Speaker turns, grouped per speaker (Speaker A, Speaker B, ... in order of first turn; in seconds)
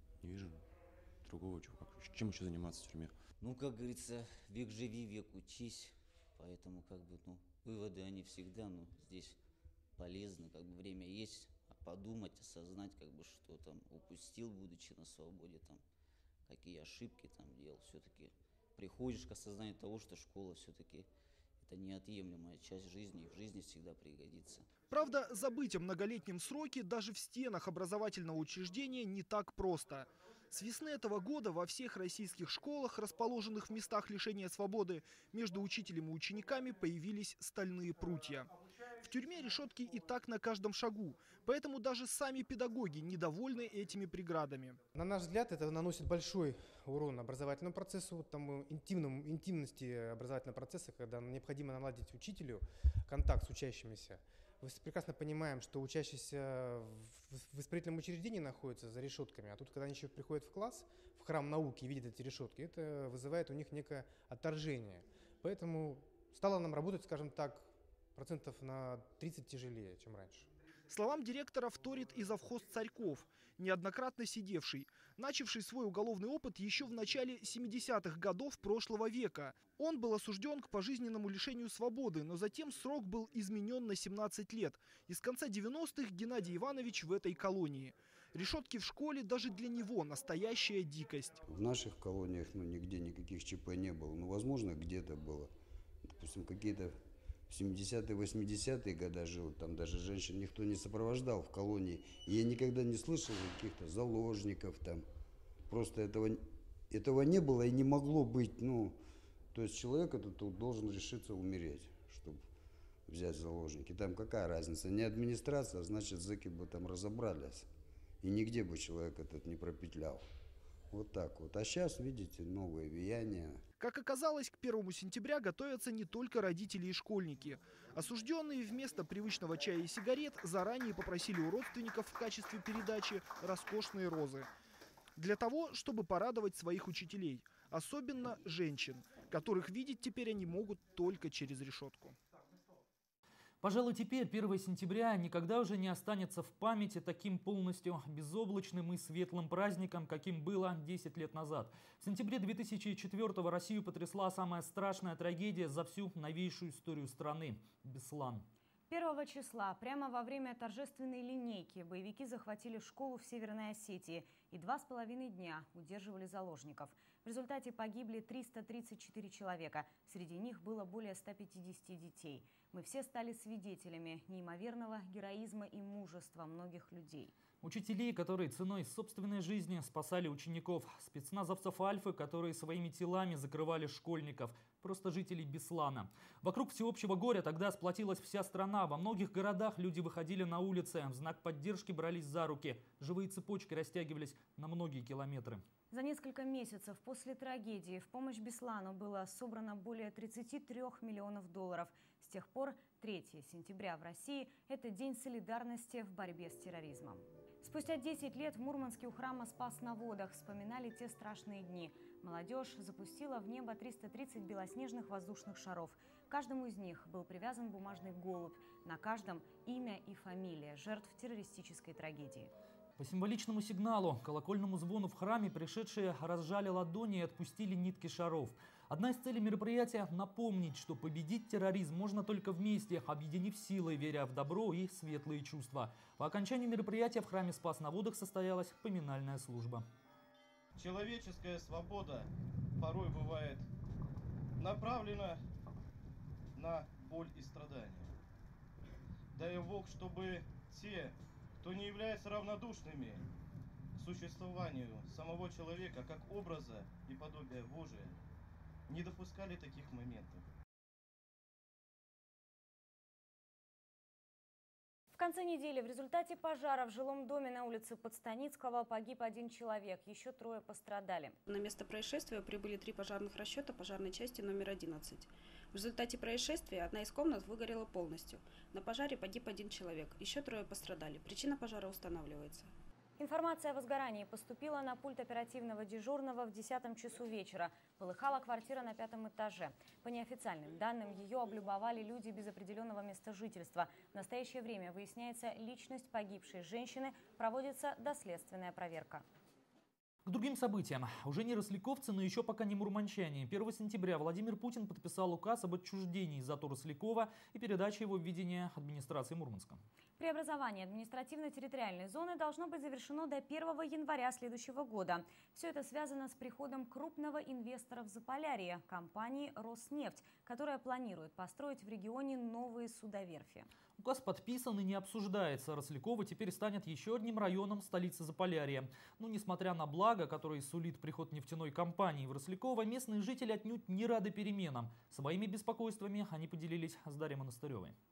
Speaker A: 0.2-0.7, 1.2-3.1
Speaker B: 3.4-9.4, 10.0-15.8, 16.5-21.1, 21.6-24.7
Speaker C: 24.9-38.5, 39.0-44.8, 70.9-91.4, 123.8-134.5, 135.2-142.2
Speaker D: 44.9-70.5
Speaker E: 91.5-95.5, 96.1-96.9, 97.5-105.0, 105.7-109.0, 109.5-112.4, 113.1-117.7, 118.2-120.2, 120.9-123.6
Speaker F: 143.6-158.5, 177.6-195.6, 223.0-239.9, 300.3-309.8, 324.0-338.0
Speaker G: 158.9-177.3, 195.9-222.5, 265.1-271.4, 283.2-299.2, 310.2-323.7
Speaker H: 240.8-243.7, 244.6-245.4, 246.6-248.1, 249.3-253.2, 254.0-258.2, 258.9-260.4
Speaker I: 271.5-282.7